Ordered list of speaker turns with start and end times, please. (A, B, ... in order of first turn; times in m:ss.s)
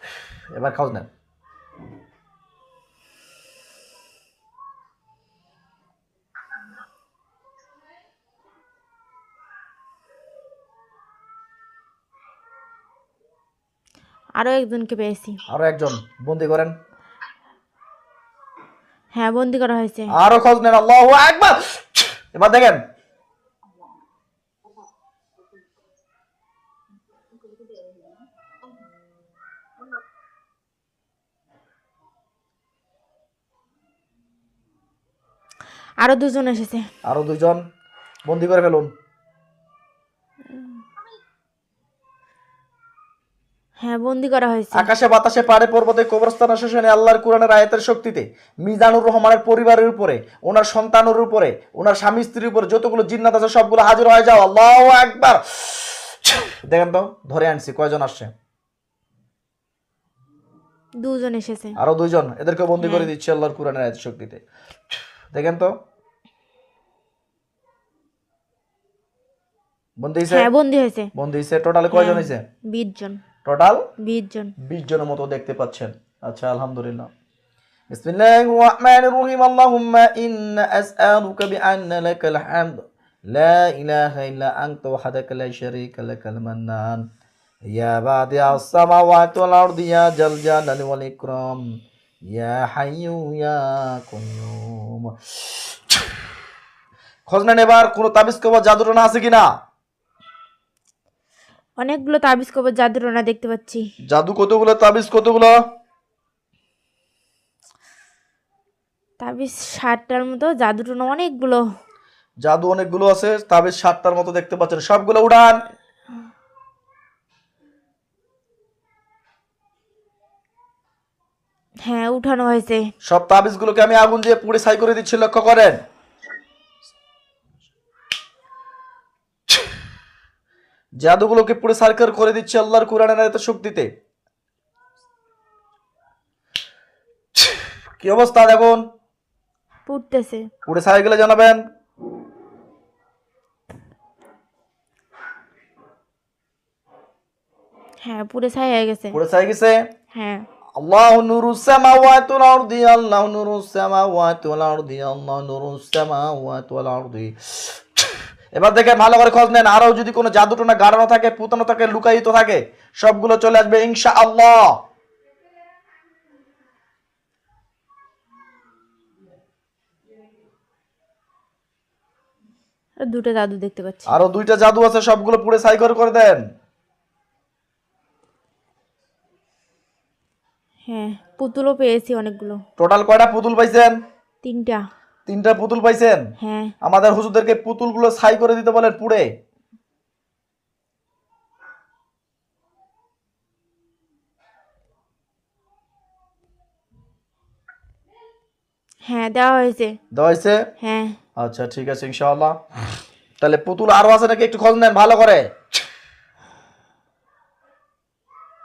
0:00.5-0:01.1 A
0:14.4-0:15.4 B
0:15.5-0:16.8 A
0:19.2-0:20.1 B
0:20.1-0:22.8 A
0:36.0-0:36.9 B
0:37.1-0:37.6 A
0:38.3-0:38.9 A
0:40.5-0:40.8 B
0:43.8-0:44.9 B
0:44.7-0:58.3 A
1:01.0-1:01.8 B
1:01.8-1:04.4 A
1:02.8-1:03.1 B
1:05.3-1:05.7 A
1:10.0-1:10.5 A
1:10.3-1:11.1 B
1:11.2-1:12.4 A
1:11.9-1:13.2 B
1:13.4-1:13.9 A
1:14.0-1:14.5 B
1:14.6-1:17.1 A
1:17.9-1:27.0 A
1:27.7-1:31.6 A
1:32.3-1:36.0 A
1:37.3-1:39.5 A
1:41.8-1:43.8 B
1:44.1-1:45.6 A
1:49.2-1:51.6 B
1:52.4-1:55.6 A
2:01.8-2:02.9 B
2:03.1-2:05.8 A
2:11.0-2:13.9 A
2:18.0-2:18.8 A
2:19.9-2:20.5 B
2:20.6-2:21.6 A
2:28.0-2:29.2 B
2:29.1-2:29.8 A
2:30.1-2:30.5 B
2:30.8-2:44.8 A
2:53.0-2:54.1 B
2:54.1-2:56.4 A
3:00.9-3:02.6 B
3:02.8-3:03.9 A
3:04.4-3:04.8 B
3:05.3-3:06.2 A
3:06.4-3:06.7 B
3:06.8-3:09.3 A
3:19.1-3:20.0 B
3:20.1-3:20.6 A
3:20.8-3:21.2 B
3:21.4-3:22.6 A
3:23.4-3:25.5 A